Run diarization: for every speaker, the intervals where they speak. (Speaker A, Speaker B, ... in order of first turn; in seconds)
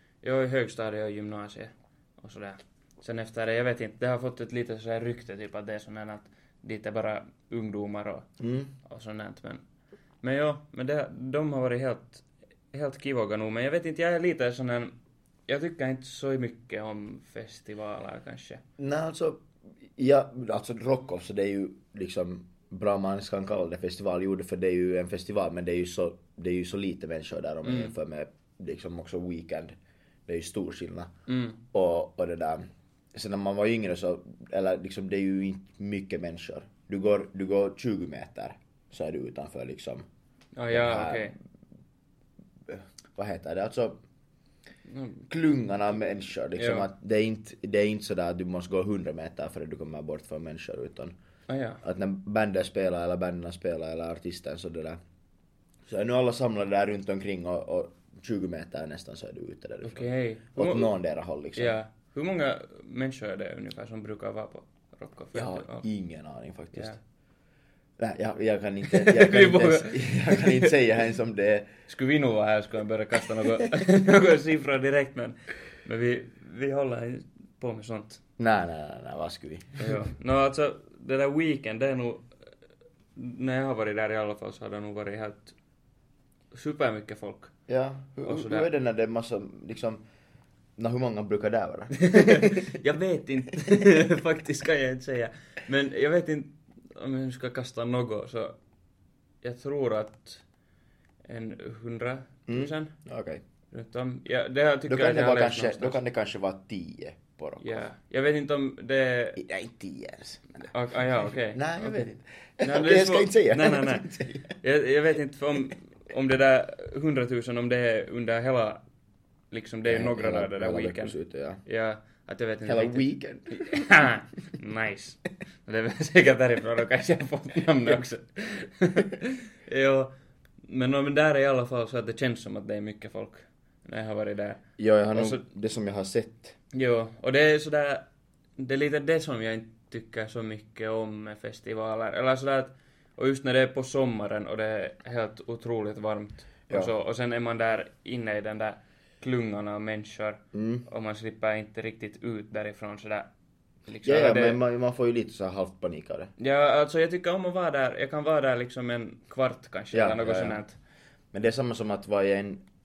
Speaker A: 0.2-8.2, 8.8-9.6, 10.2-14.9, 15.5-18.6, 27.6-27.9, 31.3-31.6, 40.5-41.3, 44.9-45.2, 46.5-46.9, 51.5-51.8, 59.8-60.9, 61.5-65.8, 68.9-70.7, 71.9-78.2, 79.8-82.3, 83.2-85.5, 86.5-87.5, 88.2-88.7, 92.0-98.5, 99.4-100.4, 101.3-102.9, 103.7-106.0, 107.6-109.4, 110.6-112.0, 112.6-118.8, 119.5-130.1, 130.6-134.6, 135.1-135.4, 136.7-138.0, 138.6-153.3, 153.9-154.6, 156.4-160.8
Speaker B: 8.4-8.7, 18.8-19.4, 19.9-29.7, 30.3-31.1, 31.7-40.0, 40.7-41.3, 42.7-44.0, 45.3-51.1, 51.8-55.0, 55.9-61.8, 65.3-67.0, 68.0-71.7, 78.4-80.0, 87.7-90.0, 90.8-92.7, 102.5-103.4, 104.9-107.8, 109.4-110.4, 111.2-114.5, 119.8-121.6, 122.7-123.9, 134.8-136.6, 150.5-150.8, 154.0-156.3, 159.9-160.6, 161.3-162.6